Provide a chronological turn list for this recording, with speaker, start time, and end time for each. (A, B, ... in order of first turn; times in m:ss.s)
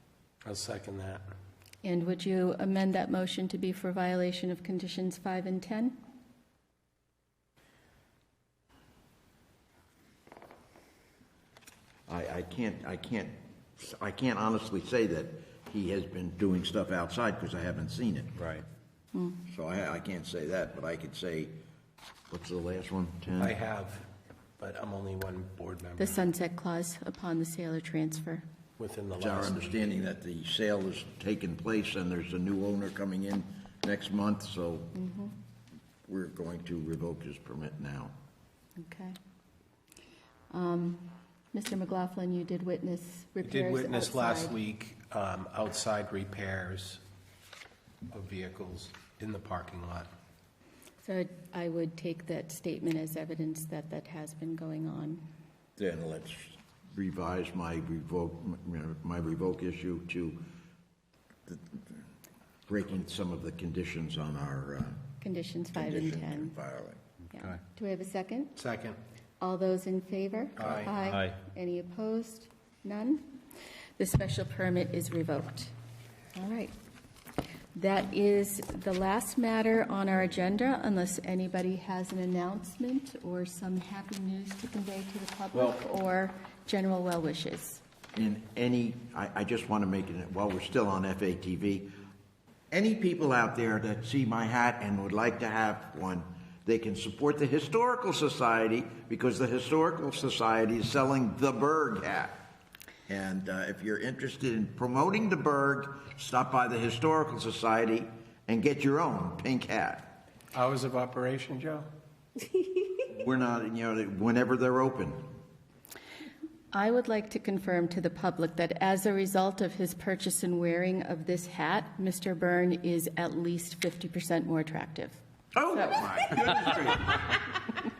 0:00.4-0:01.2 A
0:01.8-0:06.0 B
0:12.1-0:18.6 C
0:19.1-0:19.4 B
0:19.5-0:21.6 C
0:22.3-0:23.6 C
0:23.4-0:24.1 A
0:24.6-0:26.2 A
0:26.0-0:28.4 B
0:28.8-0:29.7 A
0:29.2-0:35.0 C
0:35.0-0:35.3 B
0:36.0-0:38.1 C
0:38.8-0:39.2 B
0:40.5-0:44.6 B
0:43.4-0:47.0 A
0:48.1-0:50.1 A
0:51.0-0:55.2 B
0:55.8-1:00.4 C
1:01.5-1:01.9 C
1:02.7-1:05.0 C
1:05.2-1:06.5 B
1:05.8-1:07.0 C
1:07.3-1:08.6 B
1:08.6-1:09.0 A
1:09.4-1:13.4 B
1:10.6-1:10.9 A
1:14.0-1:15.7 B
1:16.4-1:16.7 B
1:17.8-1:27.8 B
1:28.2-1:31.9 C
1:32.7-1:42.4 C
1:43.1-1:50.2 C
1:50.5-1:51.9 A
1:53.1-1:55.2 C
1:56.7-2:05.2 B
2:05.6-2:07.4 C